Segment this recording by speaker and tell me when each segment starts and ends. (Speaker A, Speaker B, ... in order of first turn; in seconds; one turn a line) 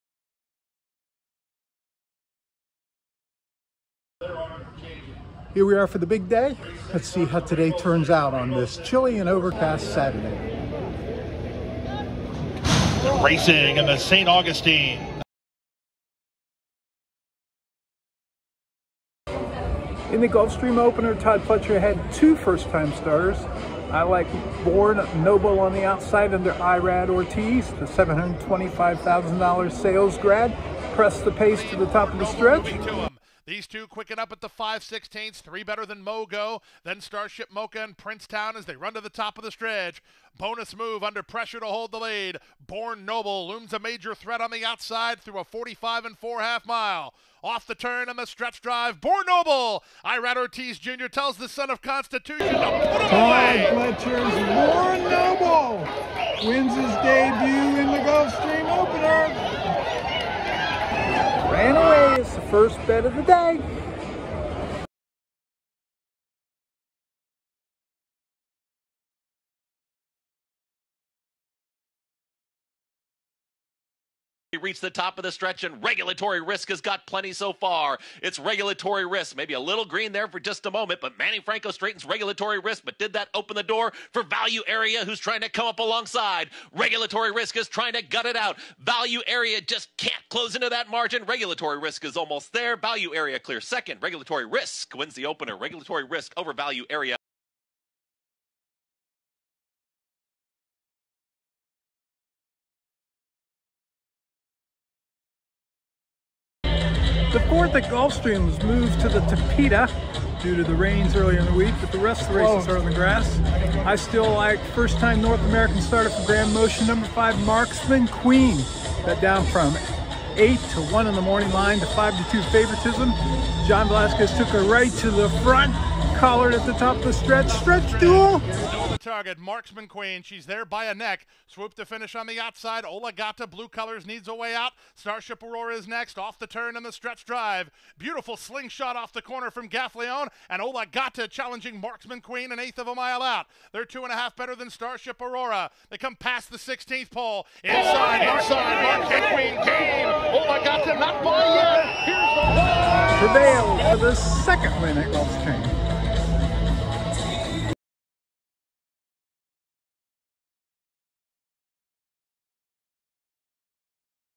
Speaker A: 5.5-10.4
Speaker B: 13.0-15.1
Speaker A: 20.1-32.8
Speaker B: 31.5-53.7
Speaker A: 53.1-59.4
Speaker A: 61.4-63.6
Speaker C: 74.5-97.2
Speaker A: 107.3-119.8
Speaker A: 120.3-128.4
Speaker B: 127.5-153.0
Speaker A: 153.1-155.7